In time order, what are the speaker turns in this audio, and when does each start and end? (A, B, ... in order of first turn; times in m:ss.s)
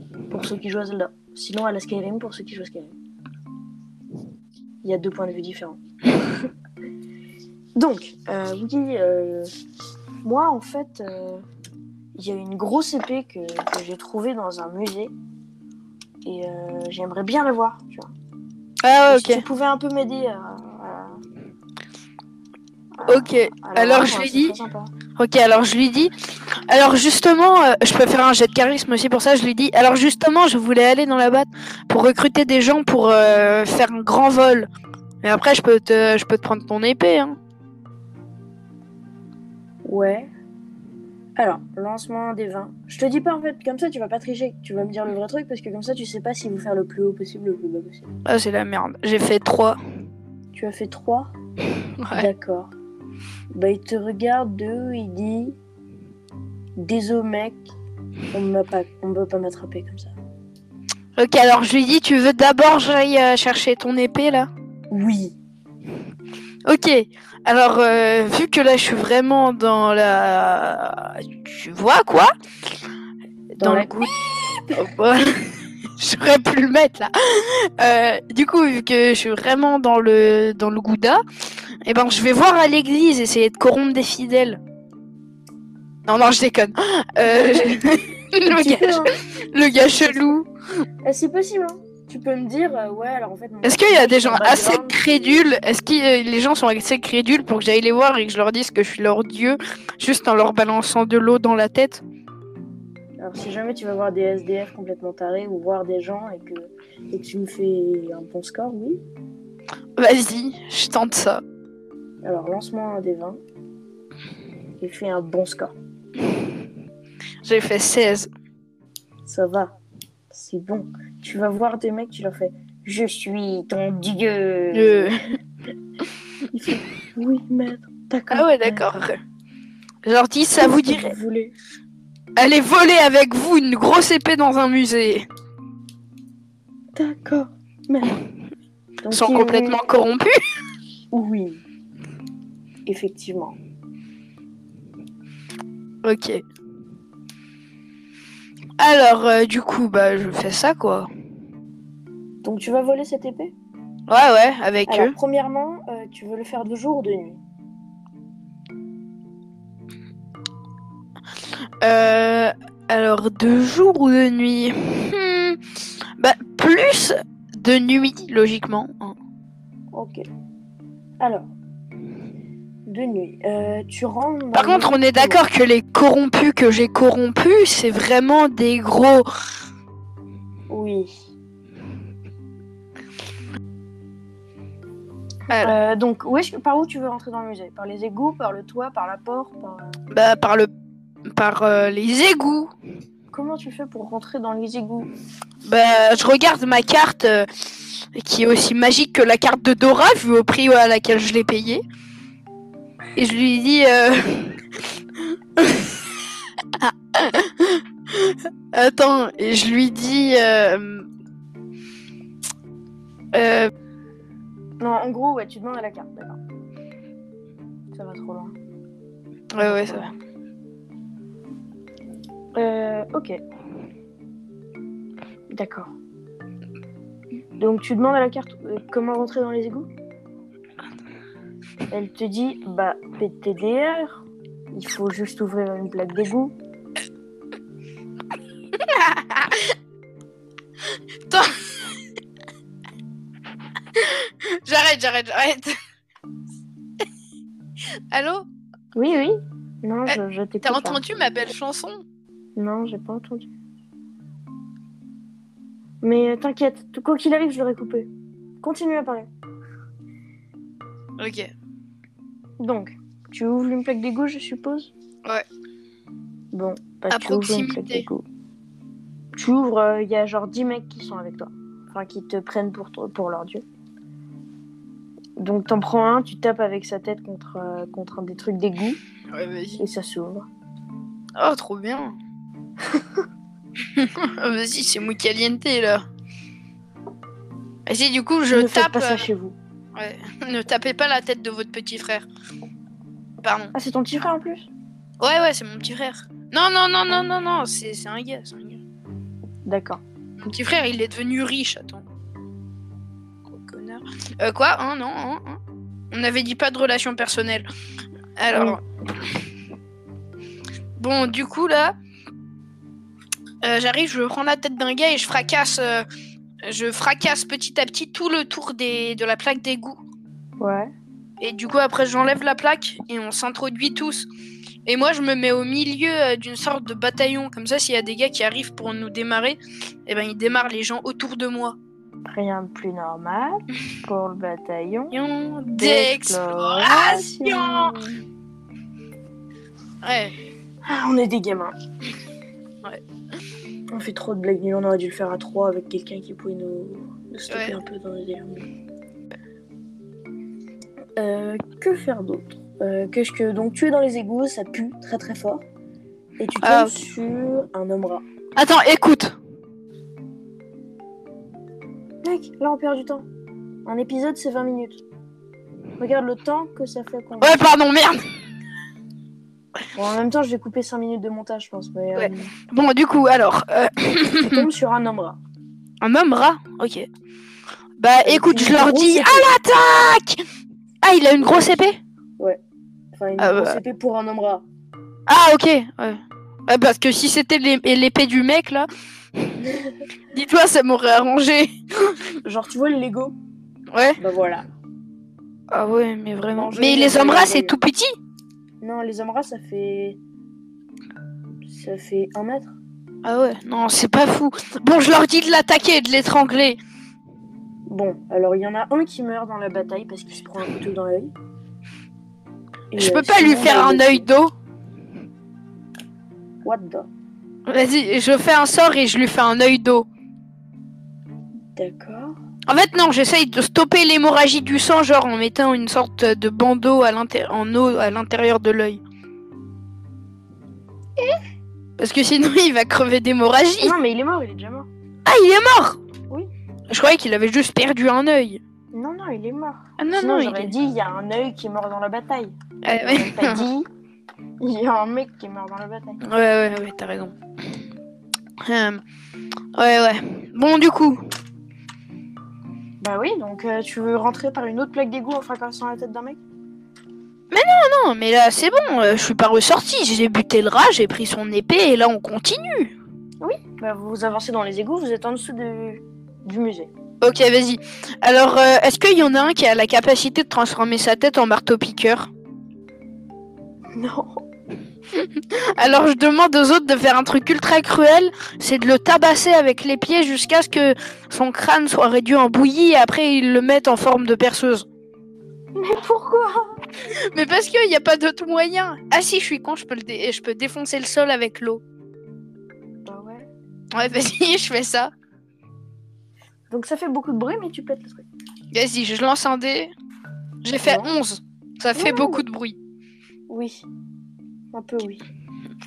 0:00.3-0:02.9 A
0:04.8-0:05.8 A
0:07.8-0:09.5 A
0:10.2-0:11.4 A
0:12.2-0:15.1 A
0:16.2-0:18.1 A
0:18.8-0:19.4 B
0:19.1-0:21.2 A
0:22.9-0:24.9 A
0:23.1-0:24.6 B
0:25.2-0:34.7 B
0:35.2-0:37.4 B
0:39.8-0:40.3 A
0:41.4-0:48.1 A
0:48.2-0:49.8 B
0:50.5-0:51.3 A
0:52.0-0:52.3 B
0:52.1-0:52.7 A
0:53.5-0:55.6 A
0:56.8-0:57.6 A
0:58.3-1:00.1 A
1:01.2-1:04.5 B
1:04.9-1:05.4 A
1:06.6-1:12.3 B
1:13.6-1:14.0 A
1:13.6-1:14.1 B
1:14.7-1:21.2 B
1:21.8-1:24.6 B
1:26.1-1:30.5 B
1:27.2-1:27.8 A
1:28.4-1:29.2 A
1:29.7-1:30.4 A
1:31.0-1:35.2 A
1:33.6-1:42.0 B
1:43.2-1:49.0 A
1:50.0-1:51.4 B
1:52.2-1:53.4 A
1:54.8-1:55.7 A
1:57.4-1:58.3 B
1:59.2-1:59.7 A
2:00.3-2:05.2 A
2:04.7-2:05.2 B
2:06.5-2:09.0 A
2:08.3-2:09.2 B
2:10.0-2:11.1 B
2:10.6-2:11.5 A
2:12.4-2:15.3 B
2:16.9-2:18.2 A
2:19.0-2:19.8 A
2:19.1-2:20.3 B
2:21.1-2:21.6 A
2:22.8-2:23.6 A
2:26.0-2:26.4 B
2:28.8-2:31.1 B
2:32.4-2:33.5 A
2:34.1-2:35.1 B
2:34.9-2:37.4 A
2:41.8-2:45.6 B
2:46.2-2:49.2 B
2:49.9-2:50.2 A
2:51.2-2:51.5 A
2:52.9-2:55.4 A
2:54.5-2:59.3 B
3:00.7-3:01.1 A
3:05.5-3:05.8 B
3:05.6-3:10.0 A
3:10.1-3:10.7 B
3:11.3-3:12.7 B
3:13.3-3:15.1 A
3:15.6-3:21.8 B
3:23.2-3:31.1 B
3:33.3-3:33.7 B
3:34.8-3:36.4 A
3:37.9-3:38.5 A
3:39.5-3:40.1 B
3:39.6-3:40.1 A
3:42.6-3:43.4 A
3:45.5-3:45.9 A
3:47.6-3:49.9 A
3:51.9-3:56.5 A
3:58.7-3:59.7 B
4:00.9-4:02.0 B
4:03.9-4:05.8 B
4:08.1-4:08.5 B
4:08.9-4:11.0 A
4:10.1-4:12.0 B
4:12.6-4:13.5 A
4:16.0-4:18.1 A
4:18.6-4:19.3 A
4:21.2-4:21.5 B
4:22.6-4:24.9 A
4:26.5-4:28.2 A
4:27.1-4:28.0 B
4:29.4-4:33.6 A
4:35.4-4:39.0 A
4:39.3-4:39.8 B
4:39.8-4:40.5 A
4:41.4-4:42.2 B
4:43.8-4:46.0 B
4:47.8-4:49.3 B
4:48.5-4:49.6 A
4:49.9-4:52.3 B
4:53.4-4:53.7 B
4:53.7-4:54.7 A
4:55.2-4:58.8 B
4:59.6-5:00.0 A
5:00.4-5:02.0 B
5:03.5-5:05.6 B
5:06.1-5:07.6 B
5:08.4-5:09.4 B
5:08.5-5:08.8 A
5:11.0-5:12.0 B
5:13.6-5:16.0 B
5:16.6-5:20.0 B
5:20.6-5:20.9 A
5:21.4-5:24.3 B
5:24.8-5:31.8 B
5:32.2-5:35.1 A
5:35.1-5:38.0 B
5:35.8-5:38.2 A
5:40.0-5:40.3 B
5:40.8-5:41.7 A
5:43.9-5:48.6 A
5:47.5-5:47.8 B
5:51.2-5:55.6 A
5:56.4-5:58.2 A
5:56.6-5:57.0 B
5:58.6-5:59.4 B
6:02.2-6:03.3 A
6:03.8-6:05.0 A
6:06.0-6:07.6 A
6:07.4-6:08.2 B
6:09.9-6:12.5 A
6:12.2-6:14.7 B
6:14.5-6:15.4 A
6:16.0-6:17.1 B
6:18.0-6:20.4 B
6:18.2-6:19.5 A
6:21.0-6:22.0 B
6:23.1-6:24.6 A
6:23.4-6:23.8 B
6:25.3-6:29.6 B
6:30.3-6:32.3 B
6:32.4-6:33.3 A
6:33.9-6:34.2 B
6:34.2-6:34.6 A
6:35.7-6:38.1 B
6:36.5-6:37.8 A
6:38.8-6:40.2 A
6:41.7-6:42.8 A
6:43.2-6:46.8 B
6:47.9-6:51.3 A
6:52.9-6:54.3 A
6:53.0-6:54.5 B
6:56.6-6:57.1 A
6:57.7-7:00.1 B
7:01.7-7:02.4 A
7:02.7-7:09.0 B
7:12.0-7:13.9 B
7:13.8-7:14.9 A
7:15.2-7:16.0 B
7:16.9-7:18.6 B
7:18.9-7:23.9 A
7:20.0-7:20.7 B
7:22.8-7:23.7 B
7:24.6-7:26.2 A
7:26.2-7:27.3 B
7:28.6-7:29.0 B
7:29.7-7:31.2 B
7:33.0-7:36.4 A
7:37.5-7:42.9 B
7:43.4-7:46.9 A
7:47.2-7:52.3 B
7:53.9-7:54.4 A
7:55.1-8:04.8 B
8:05.7-8:06.8 A
8:07.3-8:11.8 B
8:13.0-8:13.5 A
8:13.9-8:15.1 B
8:16.7-8:18.2 A
8:18.7-8:19.9 B
8:20.6-8:22.8 B
8:20.8-8:21.2 A
8:21.9-8:22.4 A
8:23.5-8:23.8 A
8:24.7-8:25.2 A